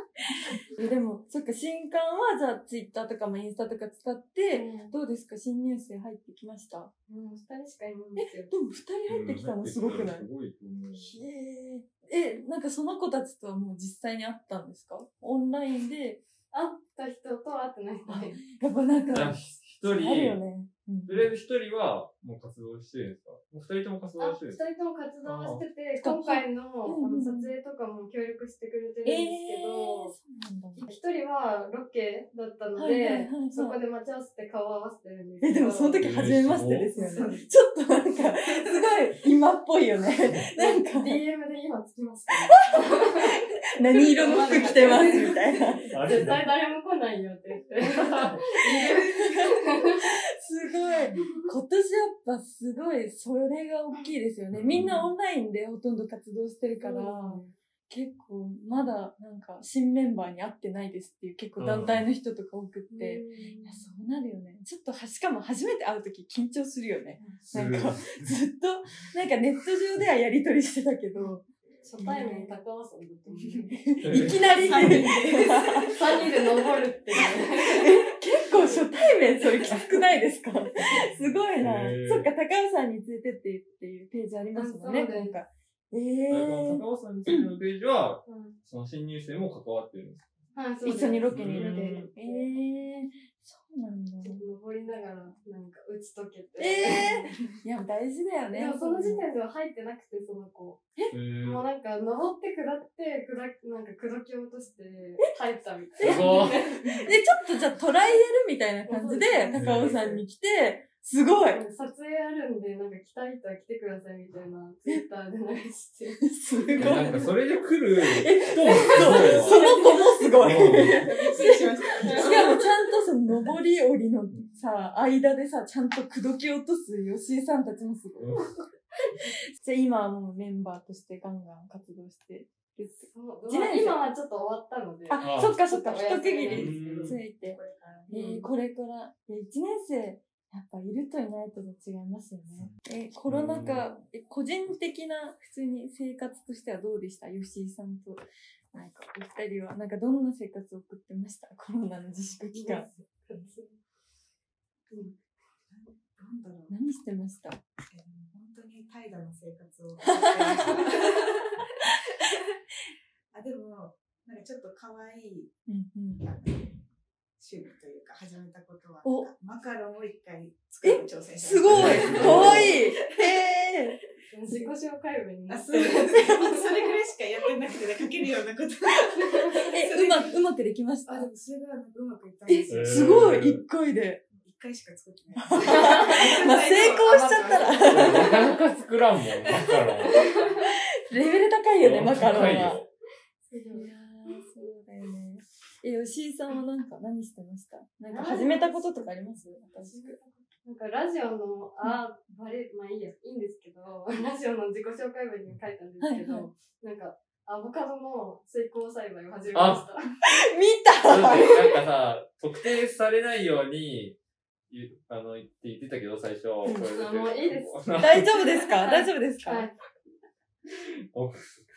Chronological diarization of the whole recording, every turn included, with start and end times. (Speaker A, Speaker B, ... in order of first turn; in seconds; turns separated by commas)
Speaker A: 0.3-6.9, Speaker B: 4.5-5.0, Speaker B: 7.1-8.5, Speaker A: 8.2-10.3, Speaker C: 9.1-11.2, Speaker A: 10.9-16.2, Speaker B: 16.5-18.4, Speaker A: 18.1-21.3, Speaker C: 19.1-20.4, Speaker C: 21.1-24.6, Speaker B: 24.2-30.1, Speaker C: 25.2-25.6, Speaker A: 26.0-27.5, Speaker A: 29.1-30.9, Speaker B: 30.8-36.1, Speaker A: 32.8-33.8, Speaker A: 35.4-41.2, Speaker C: 36.0-36.9, Speaker D: 36.9-37.5, Speaker B: 37.0-37.4, Speaker D: 38.1-38.9, Speaker B: 40.6-50.1, Speaker A: 42.7-46.4, Speaker D: 44.2-45.6, Speaker C: 45.9-46.5, Speaker C: 47.9-48.4, Speaker D: 48.6-49.4, Speaker A: 48.7-49.5, Speaker A: 50.4-71.5, Speaker B: 51.1-51.5, Speaker C: 54.5-55.1, Speaker B: 56.8-57.5, Speaker C: 61.6-62.1, Speaker B: 62.9-63.9, Speaker D: 67.2-67.5, Speaker C: 67.5-68.4, Speaker B: 71.8-73.8, Speaker A: 72.0-72.5, Speaker A: 73.6-76.0, Speaker C: 74.0-74.8, Speaker D: 74.2-76.6, Speaker B: 75.9-78.0, Speaker A: 77.7-87.5, Speaker B: 78.5-80.0, Speaker C: 81.6-82.3, Speaker B: 84.5-85.4, Speaker C: 86.3-90.2, Speaker B: 88.3-88.6, Speaker B: 90.5-92.5, Speaker A: 90.8-94.5, Speaker C: 91.3-92.1, Speaker B: 94.2-97.2, Speaker A: 96.6-99.3, Speaker B: 98.5-100.8, Speaker C: 101.1-101.7, Speaker B: 101.4-107.0, Speaker A: 106.0-111.6, Speaker C: 106.0-106.7, Speaker B: 108.9-109.9, Speaker C: 109.5-110.1, Speaker B: 111.5-116.3, Speaker A: 116.3-117.3, Speaker C: 116.8-119.6, Speaker A: 118.1-128.5, Speaker B: 119.0-120.0, Speaker D: 119.5-122.8, Speaker C: 120.4-121.1, Speaker B: 121.9-122.6, Speaker C: 124.3-124.7, Speaker C: 128.2-128.5, Speaker A: 129.2-134.0, Speaker B: 133.1-137.2, Speaker A: 135.1-152.9, Speaker C: 135.2-135.6, Speaker C: 136.5-137.2, Speaker D: 136.7-138.1, Speaker B: 138.1-138.5, Speaker C: 143.3-144.0, Speaker B: 152.5-153.7, Speaker D: 153.4-153.8, Speaker B: 154.9-155.2, Speaker D: 155.7-156.8, Speaker A: 156.7-157.6, Speaker D: 157.9-161.4, Speaker A: 160.1-161.1, Speaker D: 163.3-165.6, Speaker A: 165.7-166.3, Speaker D: 166.2-166.8, Speaker D: 167.4-173.5, Speaker A: 169.0-169.3, Speaker A: 170.8-174.7, Speaker C: 171.7-172.8, Speaker B: 171.8-172.7, Speaker B: 174.3-176.9, Speaker D: 175.5-180.4, Speaker A: 175.7-176.4, Speaker B: 179.2-179.7, Speaker A: 179.6-181.3, Speaker D: 181.1-183.4, Speaker A: 182.5-184.2, Speaker C: 182.7-183.6, Speaker D: 184.3-188.6, Speaker A: 185.3-188.5, Speaker B: 185.6-186.4, Speaker C: 187.8-190.2, Speaker B: 190.1-190.6, Speaker A: 190.3-192.8, Speaker C: 191.8-192.9, Speaker B: 193.5-194.4, Speaker A: 193.7-200.2, Speaker B: 198.1-210.1, Speaker A: 206.0-206.5, Speaker C: 209.5-209.9, Speaker A: 210.3-211.7, Speaker C: 211.0-214.2, Speaker C: 214.7-218.6, Speaker B: 216.8-219.8, Speaker A: 218.0-219.7, Speaker C: 220.7-221.7